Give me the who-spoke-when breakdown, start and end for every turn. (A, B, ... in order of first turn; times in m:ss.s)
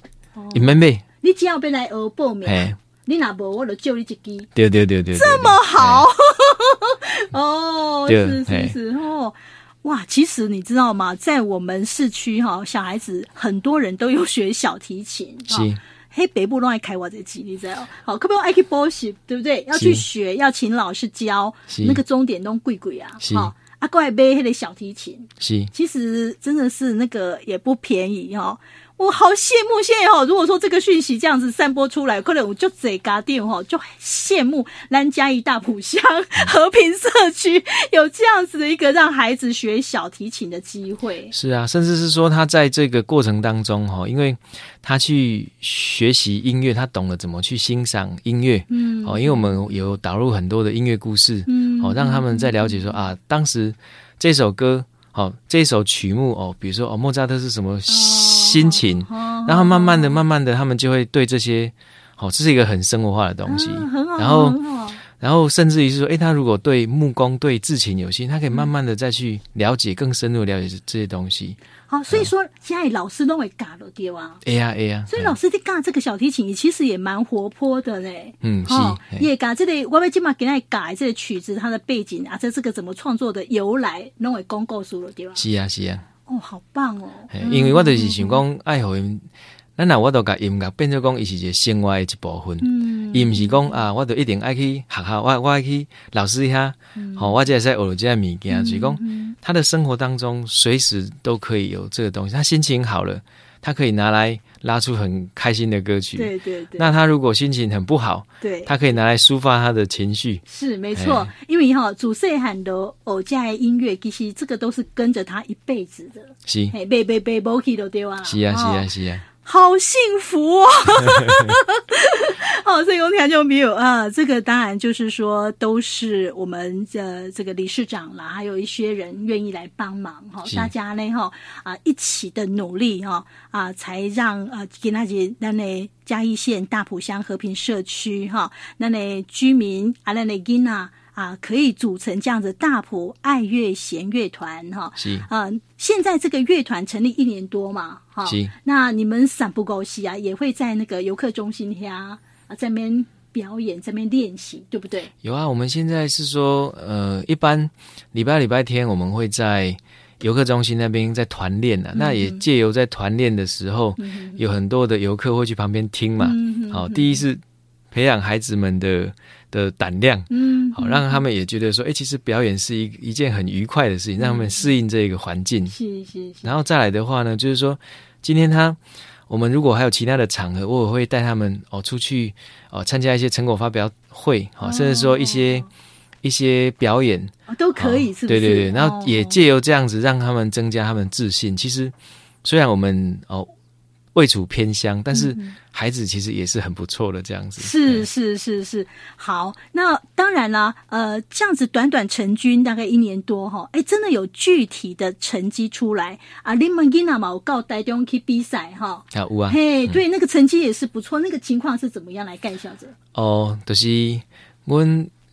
0:00.4-0:04.5 A
0:00.5-0:01.0 B
0:02.4-0:02.8 B
0:04.5-0:06.0 B
0:05.1-0:41.3 A
0:08.1-0:08.7 B
0:15.5-0:15.8 B
0:19.7-0:20.0 B
0:21.7-0:22.0 B
0:23.2-0:23.5 B
0:25.4-0:25.7 B
0:41.3-1:04.6 B
0:48.7-0:49.8 A
0:51.5-0:52.9 A
0:57.9-1:00.2 A
1:03.4-1:05.0 A
1:05.2-1:11.6 B
1:11.9-1:14.4 A
1:14.4-1:15.4 B
1:15.1-1:25.4 A
1:18.4-1:19.3 B
1:25.4-1:26.0 B
1:26.3-1:28.4 A
1:27.3-1:50.4 B
1:32.6-1:33.8 A
1:37.0-1:37.4 A
1:38.5-1:39.4 A
1:46.2-1:46.9 A
1:48.4-1:48.9 A
1:50.4-1:58.9 A
1:50.9-1:51.3 B
1:56.4-1:56.7 B
1:58.2-1:59.2 B
1:59.4-2:35.1 A
2:01.1-2:01.5 B
2:25.0-2:25.3 B
2:28.2-2:28.5 B
2:35.2-2:47.4 B
2:41.9-2:42.4 A
2:44.0-2:44.4 A
2:46.2-2:47.2 A
2:47.9-2:55.7 B
2:50.3-2:51.2 A
2:54.2-2:54.7 A
2:55.7-2:56.5 A
2:56.4-3:05.7 B
3:04.6-3:05.7 A
3:06.2-3:13.5 B
3:07.5-3:09.4 A
3:14.1-3:18.1 B
3:15.1-3:15.6 A
3:17.6-3:32.9 A
3:29.1-3:30.0 B
3:33.1-3:35.1 B